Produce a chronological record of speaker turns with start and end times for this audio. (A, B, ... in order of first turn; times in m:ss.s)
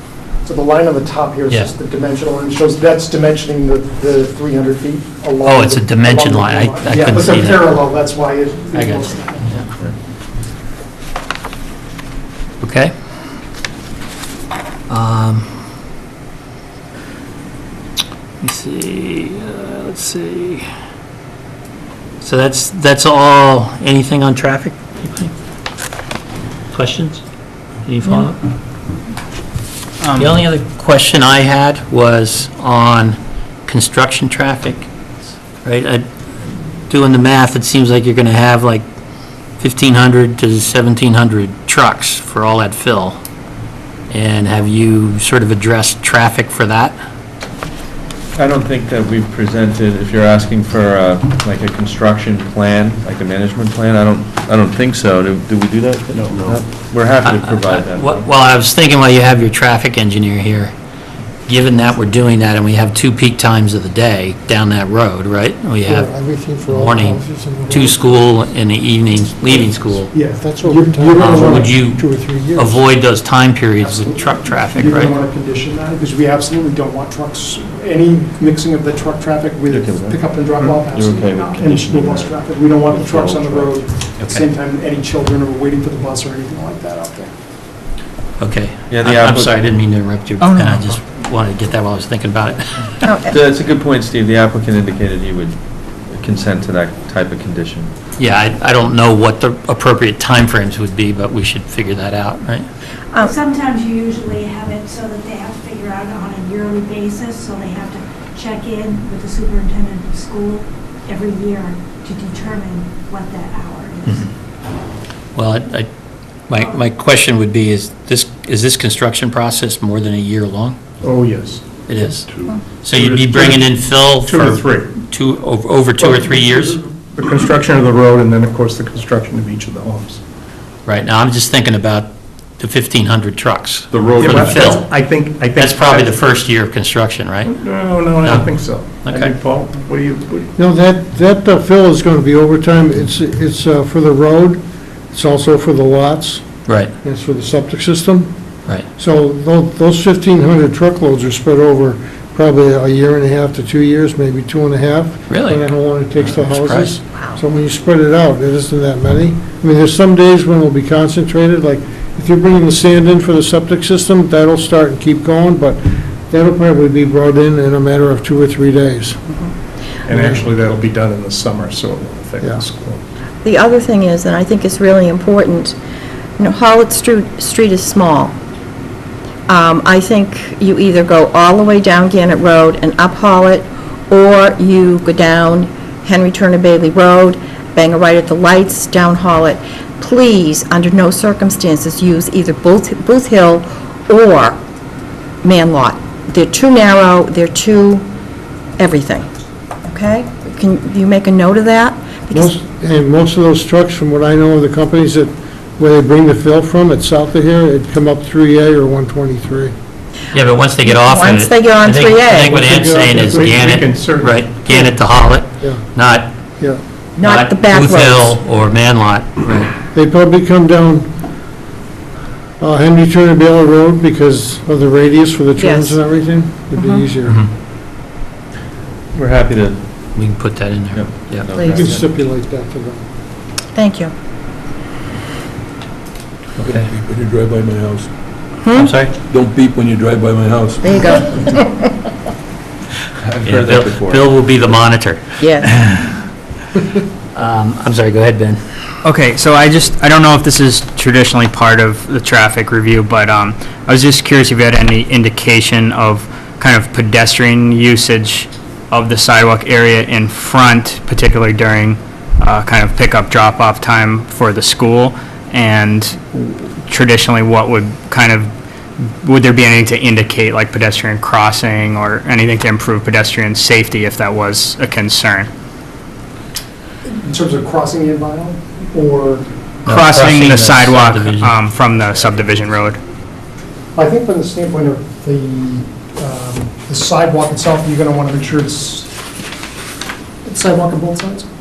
0:00.4-0:09.7 A
0:05.4-0:07.8 B
0:08.7-0:09.7 B
0:12.6-0:12.9 B
0:14.9-0:15.5 B
0:18.4-0:20.7 B
0:22.2-0:25.3 B
0:26.7-0:27.2 B
0:27.9-0:28.4 B
0:30.0-0:30.3 C
0:30.2-0:34.9 B
0:35.6-0:36.1 B
0:36.9-0:38.8 B
0:39.6-0:43.2 B
0:44.1-0:47.0 B
0:48.4-0:58.3 D
0:57.2-1:00.7 B
1:01.5-1:06.1 B
1:05.9-1:08.0 E
1:06.7-1:10.1 B
1:09.4-1:12.7 A
1:10.4-1:11.8 E
1:11.2-1:15.2 B
1:13.8-1:27.3 A
1:19.7-1:20.2 D
1:20.9-1:23.8 D
1:28.4-1:33.1 B
1:28.9-1:29.8 D
1:30.4-1:30.8 C
1:33.0-1:33.3 F
1:33.3-1:37.9 D
1:38.2-1:42.7 B
1:43.2-1:54.3 G
1:55.4-1:55.9 B
1:56.5-2:00.8 B
2:01.0-2:02.2 H
2:01.9-2:06.8 B
2:02.9-2:04.9 H
2:06.0-2:10.2 H
2:10.9-2:14.9 B
2:13.9-2:16.2 H
2:15.6-2:17.5 B
2:17.4-2:20.5 H
2:18.2-2:19.3 B
2:20.6-2:26.4 E
2:26.7-2:26.9 B
2:27.0-2:28.3 E
2:29.0-2:49.3 E
2:35.3-2:35.7 B
2:36.2-2:37.0 B
2:50.1-2:53.0 H
2:50.1-2:50.4 E
2:53.4-2:55.8 F
2:56.4-2:58.4 F
2:59.5-3:14.6 F
3:15.4-3:18.0 F
3:18.8-3:19.3 F
3:19.9-3:22.5 F
3:22.3-3:29.7 E
3:30.3-3:36.3 B
3:30.8-3:32.6 F
3:32.5-3:34.8 H
3:37.2-3:38.4 F
3:37.2-3:39.7 B
3:39.9-3:41.1 E
3:42.6-3:47.5 E
3:45.6-3:46.0 F
3:46.8-3:47.1 F
3:49.2-3:49.8 D
3:50.2-3:51.5 B
3:50.9-3:52.1 D
3:51.5-3:51.9 F
3:51.6-3:53.0 E
3:53.8-3:54.1 F
3:56.6-3:58.1 I
3:56.6-3:56.9 B
3:58.6-3:58.9 F
3:58.8-3:59.1 B
3:59.2-4:01.1 I
4:00.8-4:01.9 F
4:03.3-4:04.3 D
4:03.4-4:06.2 B
4:05.4-4:05.7 F
4:07.3-4:08.6 B
4:09.0-4:35.5 C
4:37.2-4:39.5 A
4:39.9-4:43.0 C
4:39.9-4:41.6 B
4:44.0-4:49.1 A
4:50.4-4:51.5 A